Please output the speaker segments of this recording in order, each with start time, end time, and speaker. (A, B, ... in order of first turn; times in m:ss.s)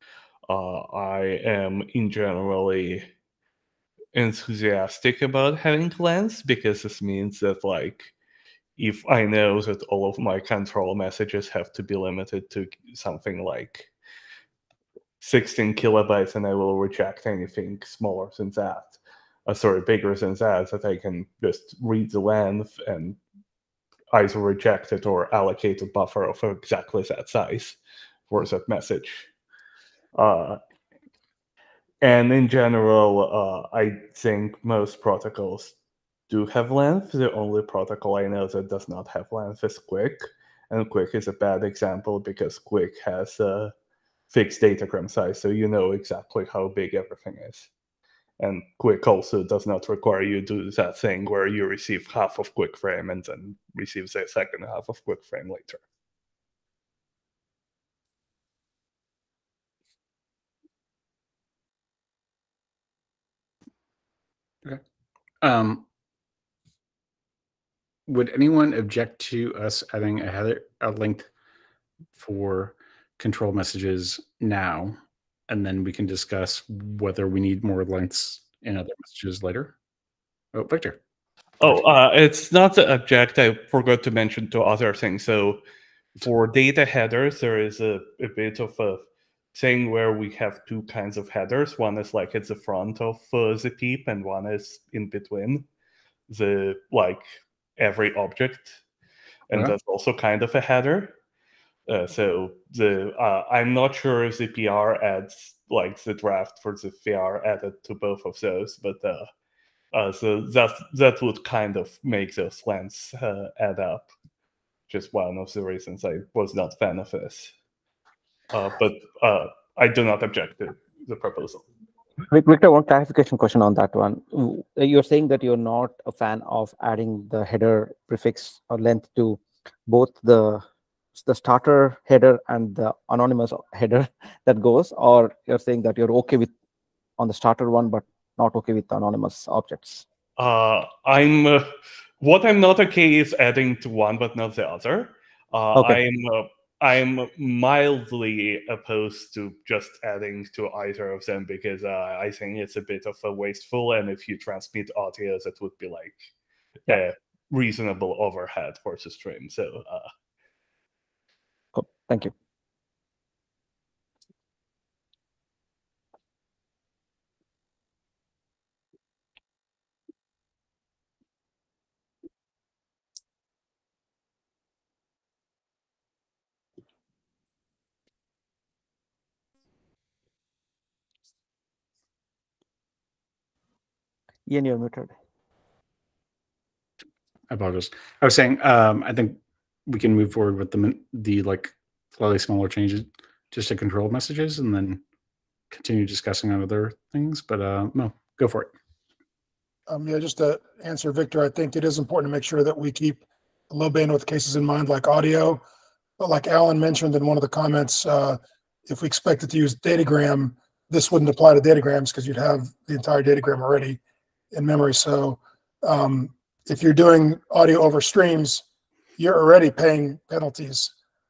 0:00.5-0:03.0 A
0:04.1-0:08.1 A
0:08.8-0:13.9 A
0:15.2-0:23.2 A
0:24.1-0:27.8 A
0:28.3-0:29.3 A
0:30.1-0:30.6 A
0:32.0-0:35.7 A
0:36.3-0:43.7 A
0:44.3-0:47.7 A
0:48.4-0:55.8 A
1:05.4-1:05.8 B
1:08.1-1:11.3 B
1:12.2-1:15.0 B
1:15.5-1:19.7 B
1:20.5-1:21.0 B
1:21.6-1:25.6 A
1:26.2-1:35.7 A
1:36.3-1:37.2 A
1:37.8-1:38.8 A
1:39.5-1:41.1 A
1:41.9-1:49.3 A
1:49.9-1:54.1 A
1:54.9-1:57.5 A
1:58.5-2:01.6 A
2:02.3-2:10.6 C
2:11.2-2:16.5 C
2:17.2-2:20.0 C
2:20.4-2:21.7 A
2:22.2-2:36.3 A
2:25.7-2:26.0 C
2:36.9-2:40.1 A
2:41.7-2:42.3 C
3:04.5-3:05.1 C
3:07.5-3:15.0 B
3:15.7-3:18.7 B
3:19.9-3:25.6 D
3:26.2-3:34.0 D
3:34.5-3:38.6 D
3:39.2-3:40.9 D